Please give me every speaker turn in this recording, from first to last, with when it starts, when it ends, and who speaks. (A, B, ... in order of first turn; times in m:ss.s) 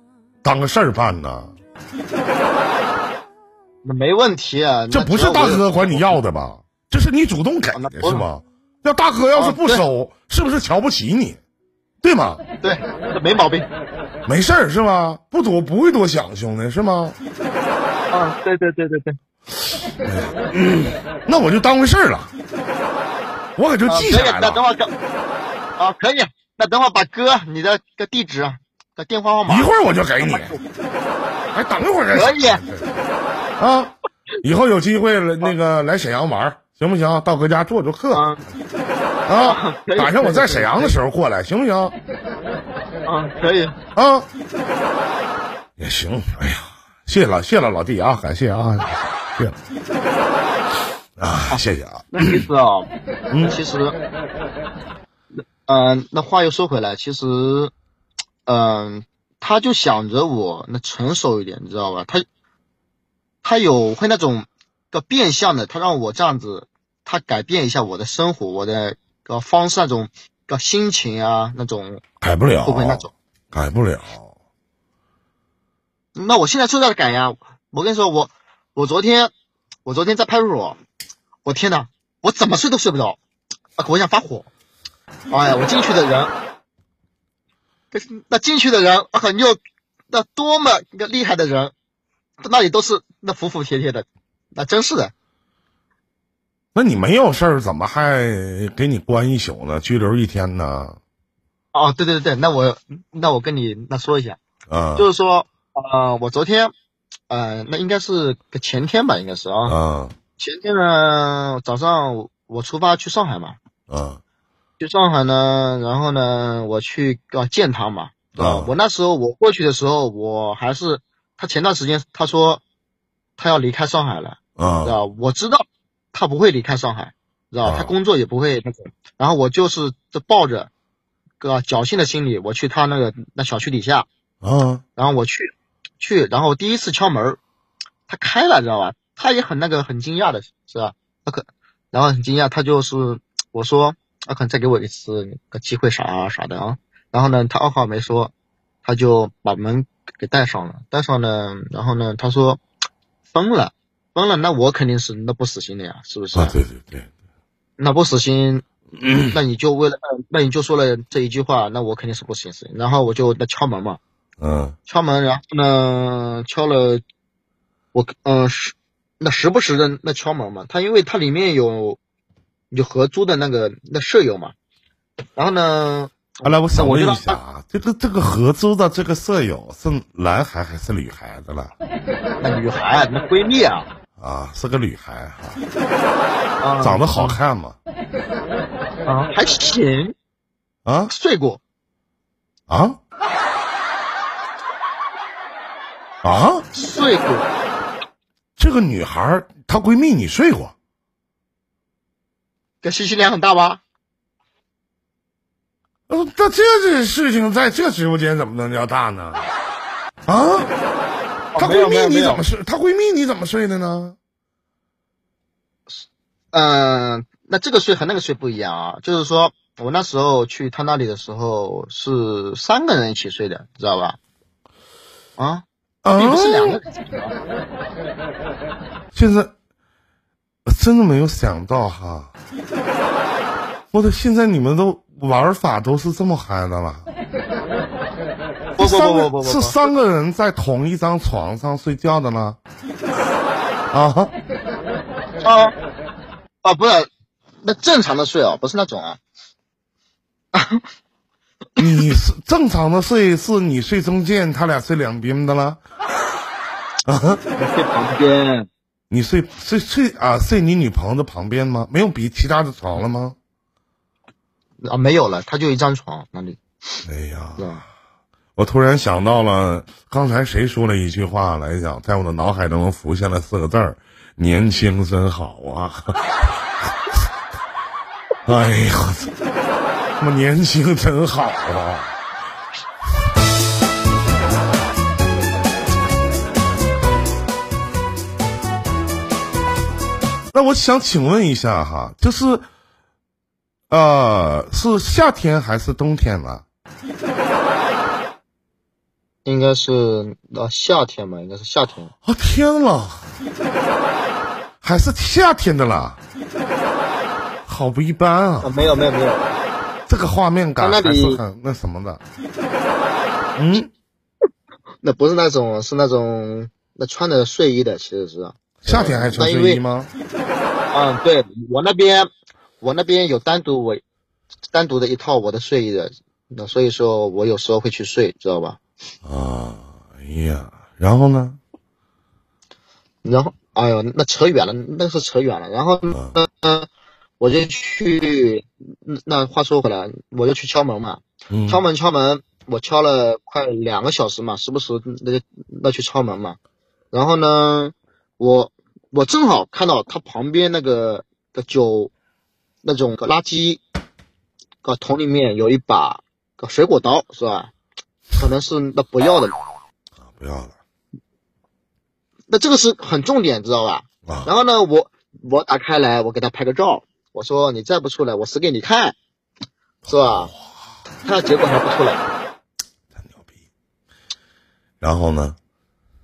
0:00.4-0:01.6 A
0:03.8-0:06.2 B
0:04.9-0:11.4 A
0:07.7-0:08.3 B
0:09.4-0:09.8 B
0:12.0-0:12.4 A
0:12.6-0:13.7 B
0:14.3-0:17.2 A
0:18.1-0:19.2 B
0:20.0-0:22.3 A
0:23.6-0:24.6 A
0:23.9-0:24.9 B
0:25.8-0:30.6 B
0:29.5-0:30.6 A
0:31.5-0:33.1 A
0:32.1-0:32.6 B
0:33.6-0:38.3 A
0:38.1-0:38.4 B
0:39.3-0:42.0 A
0:39.4-0:41.0 B
0:43.1-0:43.8 B
0:44.0-0:44.3 A
0:45.8-0:49.6 A
0:51.2-0:52.4 A
0:51.5-0:52.9 B
0:53.3-0:53.6 A
0:53.4-0:54.0 B
0:55.7-0:57.7 B
0:58.5-1:02.3 B
1:03.4-1:12.0 B
1:12.2-1:14.3 A
1:12.6-1:13.1 B
1:16.2-1:19.3 B
1:19.8-1:20.8 B
1:21.4-1:23.2 B
1:23.8-1:24.5 B
1:25.3-1:26.3 B
1:27.9-1:29.6 B
1:30.1-1:31.7 B
1:32.4-1:35.1 B
1:36.8-1:41.0 A
1:41.7-1:44.4 B
1:44.7-1:45.1 A
1:45.0-1:46.7 B
1:47.3-1:49.8 B
1:49.7-1:50.2 A
1:50.4-1:53.6 B
1:53.9-1:54.2 A
1:54.8-2:02.6 B
1:58.4-1:58.7 A
2:03.4-2:10.7 B
2:04.6-2:05.0 A
2:07.6-2:07.9 A
2:11.4-2:14.1 B
2:14.4-2:14.8 A
2:15.0-2:17.4 B
2:18.1-2:28.3 B
2:28.8-2:32.6 B
2:33.3-2:36.6 B
2:36.4-2:37.1 A
2:37.8-2:38.6 B
2:39.0-2:39.4 A
2:39.3-2:44.0 B
2:44.4-2:44.8 A
2:44.9-2:47.0 B
2:47.9-2:52.0 B
2:52.7-2:54.5 B
2:55.4-2:57.4 B
2:56.4-3:01.8 A
3:02.4-3:03.9 B
3:04.2-3:05.6 A
3:06.6-3:07.4 B
3:06.8-3:07.8 A
3:09.1-3:10.1 B
3:10.8-3:11.1 A
3:11.1-3:11.6 B
3:12.7-3:13.0 A
3:16.2-3:16.6 A
3:16.7-3:17.5 B
3:18.6-3:20.7 A
3:22.8-3:23.8 B
3:26.1-3:29.4 A
3:30.3-3:30.7 A
3:31.5-3:32.4 B
3:31.6-3:34.2 A
3:35.9-3:44.2 B
3:45.4-3:47.3 B
3:46.0-3:46.8 A
3:49.1-3:49.5 A
3:50.7-3:52.3 A
3:53.9-3:57.1 A
3:58.8-3:59.9 B
3:58.8-4:02.6 A
4:03.9-4:04.3 A
4:05.4-4:05.7 B
4:06.6-4:07.1 B
4:07.6-4:09.2 B
4:10.5-4:10.8 B
4:11.8-4:15.8 A
4:17.0-4:17.4 A
4:17.6-4:18.7 B
4:19.1-4:23.4 A
4:24.8-4:26.6 B
4:27.0-4:27.8 A
4:27.6-4:27.8 B
4:28.6-4:36.9 A
4:38.4-4:39.3 A
4:40.2-4:42.1 A
4:50.5-4:52.7 A
4:53.9-4:56.6 A
4:59.4-5:02.1 B
5:02.2-5:03.3 A
5:04.8-5:06.2 A
5:07.6-5:09.0 A
5:08.6-5:09.6 B
5:10.1-5:12.2 A
5:10.8-5:11.4 B
5:13.6-5:13.9 A
5:15.0-5:19.8 B
5:18.8-5:20.1 A
5:20.9-5:22.3 B
5:22.8-5:24.0 B
5:24.7-5:28.8 B
5:29.2-5:31.6 A
5:33.2-5:36.9 B
5:36.1-5:36.4 A
5:37.4-5:46.6 B
5:41.5-5:41.8 A
5:47.1-5:52.1 B
5:52.8-5:53.8 B
5:54.8-5:57.7 B
5:58.4-5:59.6 B
6:00.2-6:00.8 A
6:02.5-6:09.2 B
6:04.2-6:04.5 A
6:10.1-6:10.8 A
6:10.1-6:10.5 B
6:11.2-6:12.2 B
6:13.2-6:13.5 A
6:15.0-6:15.6 A